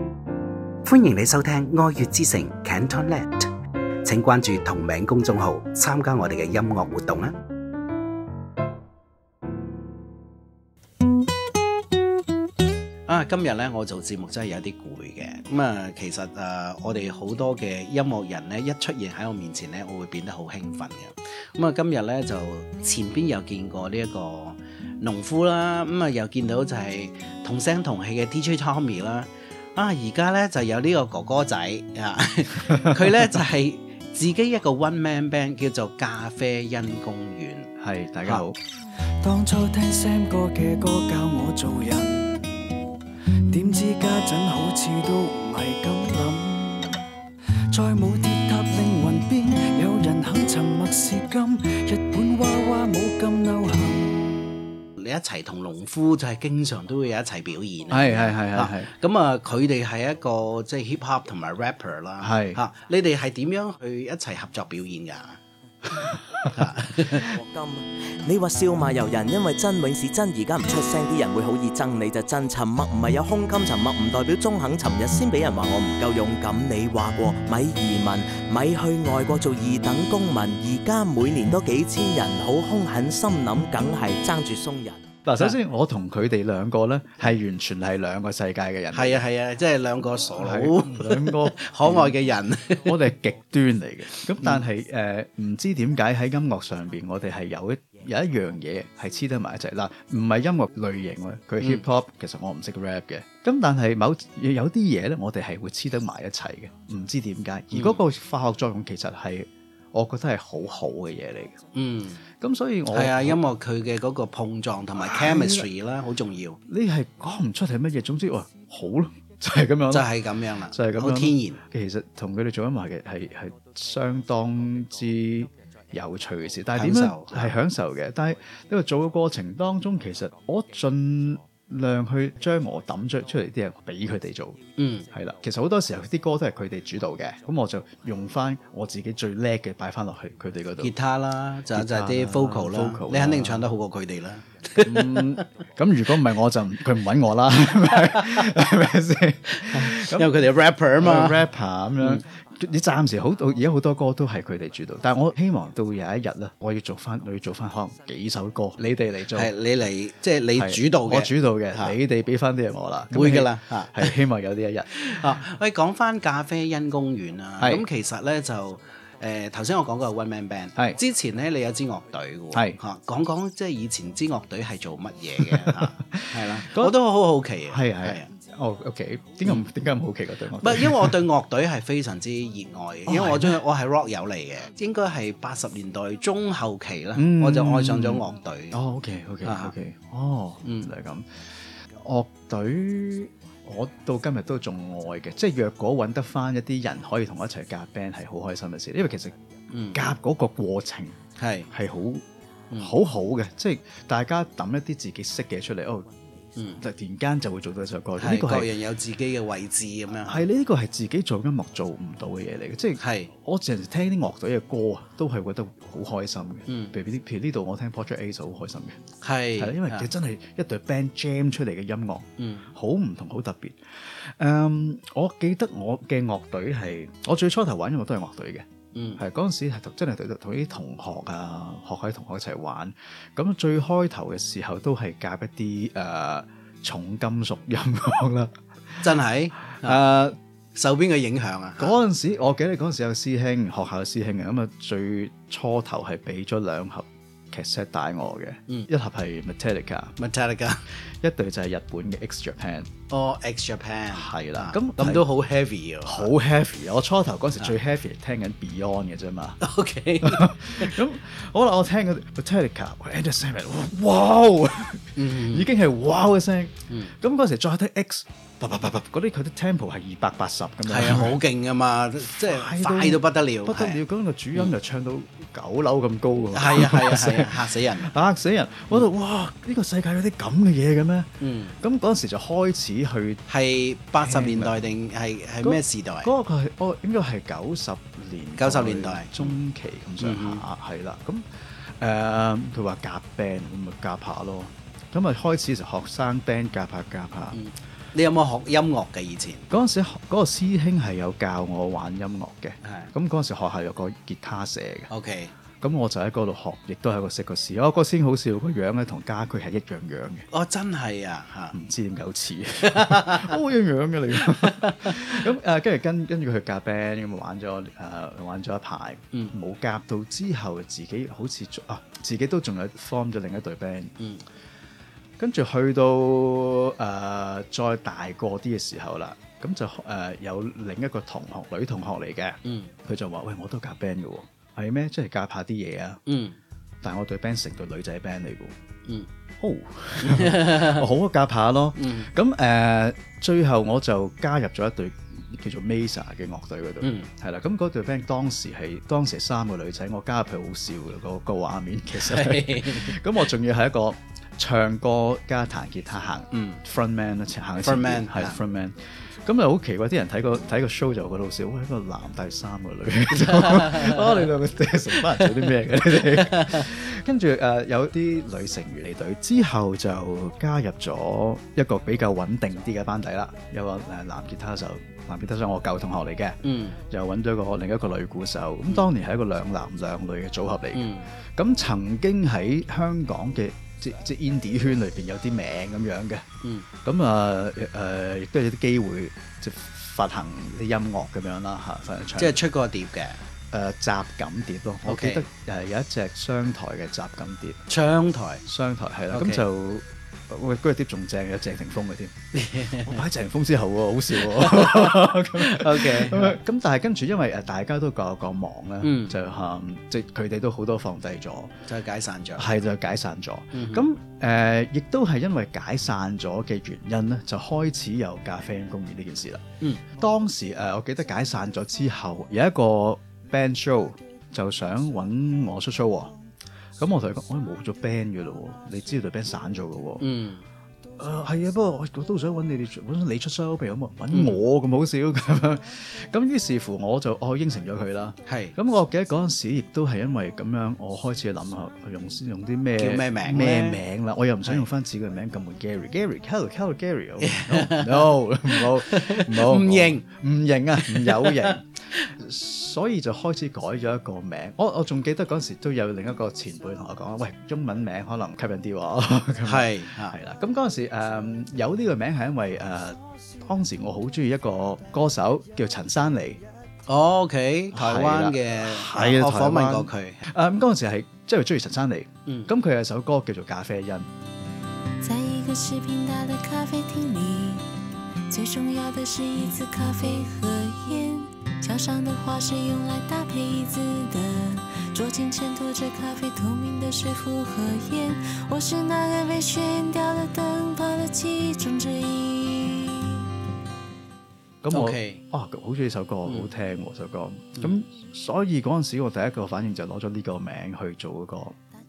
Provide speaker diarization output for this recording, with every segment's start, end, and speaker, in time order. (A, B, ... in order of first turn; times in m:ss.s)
0:00.8-0:03.5 A
0:04.0-0:07.3 A
0:13.1-0:37.7 A
0:32.8-0:33.1 B
0:37.8-0:38.6 B
0:39.2-0:42.6 C
0:43.5-0:47.0 C
0:47.7-0:54.6 C
0:55.0-1:05.4 A
0:57.9-0:58.9 B
1:02.2-1:02.6 B
1:06.5-1:07.3 A
1:07.2-1:25.1 D
1:25.2-1:29.2 B
1:28.9-1:32.8 A
1:30.4-1:32.2 B
1:32.8-1:51.7 B
1:34.4-1:34.7 A
1:41.6-1:41.9 A
1:47.7-1:48.0 A
1:51.8-1:52.2 A
1:52.4-1:53.4 B
1:52.9-1:56.6 A
1:55.0-1:55.7 B
1:56.7-2:00.1 B
1:59.9-2:01.6 A
2:00.7-2:20.9 B
2:06.8-2:07.5 A
2:14.8-2:15.1 A
2:20.8-2:25.4 A
2:21.7-2:23.7 B
2:24.8-2:39.5 B
2:28.1-2:28.4 A
2:29.5-2:31.4 A
2:39.3-2:42.0 A
2:40.6-2:45.0 B
2:43.1-2:44.2 A
2:44.9-2:58.3 A
2:47.6-2:47.9 B
2:52.5-2:52.8 B
2:55.4-2:57.0 B
2:57.7-3:01.2 B
3:00.6-3:08.8 A
3:03.1-3:03.6 B
3:07.1-3:19.4 B
3:09.4-3:09.7 A
3:19.7-3:20.0 A
3:19.9-3:26.1 B
3:21.4-3:21.7 A
3:22.7-3:23.0 A
3:26.6-3:26.8 A
3:26.8-3:28.7 B
3:28.2-3:30.4 A
3:30.2-3:39.0 B
3:33.0-3:33.3 A
3:36.7-3:36.9 A
3:39.2-3:40.1 A
3:39.6-3:48.6 B
3:42.4-3:42.7 A
3:49.0-3:49.2 A
3:49.2-3:58.6 B
3:59.0-4:00.0 A
3:59.8-4:00.4 B
4:00.8-4:01.9 A
4:01.8-4:10.2 B
4:10.2-4:10.8 A
4:11.2-4:12.9 B
4:13.1-4:16.3 A
4:14.1-4:15.2 B
4:16.0-4:19.6 B
4:19.6-4:21.0 A
4:20.2-4:31.4 B
4:25.2-4:25.7 A
4:30.9-4:34.0 A
4:32.4-4:43.4 B
4:36.5-4:38.1 A
4:41.4-4:41.8 A
4:43.5-4:46.3 A
4:44.2-4:44.8 B
4:45.6-4:57.6 B
4:48.6-4:49.6 A
4:50.2-4:50.6 A
4:57.5-4:59.7 A
4:59.7-5:05.1 B
5:02.8-5:03.1 A
5:05.1-5:05.5 A
5:05.8-5:10.5 B
5:10.5-5:11.8 A
5:11.7-5:24.2 B
5:12.9-5:13.6 A
5:14.5-5:15.4 A
5:25.4-5:36.2 B
5:32.6-5:32.9 A
5:36.3-5:36.6 A
5:37.0-5:38.8 B
5:39.6-6:16.6 B
5:40.2-5:41.0 A
5:42.0-5:42.3 A
5:47.0-5:47.3 A
5:52.2-5:53.2 A
5:56.5-5:56.8 A
5:57.8-5:58.6 A
6:03.4-6:04.4 A
6:05.3-6:06.9 A
6:16.6-6:17.0 A
6:17.1-6:26.4 B
6:20.9-6:21.3 A
6:27.0-6:32.6 B
6:32.4-6:33.4 A
6:33.7-6:37.8 B
6:35.1-6:35.4 A
6:37.9-6:38.6 A
6:38.6-6:42.4 B
6:39.3-6:39.6 A
6:42.5-6:43.2 A
6:43.0-6:51.7 B
6:44.4-6:46.6 A
6:49.0-6:49.4 A
6:51.9-6:52.8 A
6:52.6-6:59.6 B
6:53.7-6:54.1 A
7:00.2-7:06.4 B
7:07.0-7:10.2 B
7:10.2-7:10.6 A
7:11.2-7:46.6 B
7:14.3-7:14.6 A
7:18.5-7:18.8 A
7:23.0-7:24.0 A
7:27.4-7:30.2 A
7:31.1-7:31.7 A
7:39.6-7:40.4 A
7:47.1-7:50.4 A
7:47.9-7:54.3 B
7:55.2-7:57.8 E
7:58.5-8:13.4 E
8:14.8-8:21.8 B
8:14.9-8:15.4 A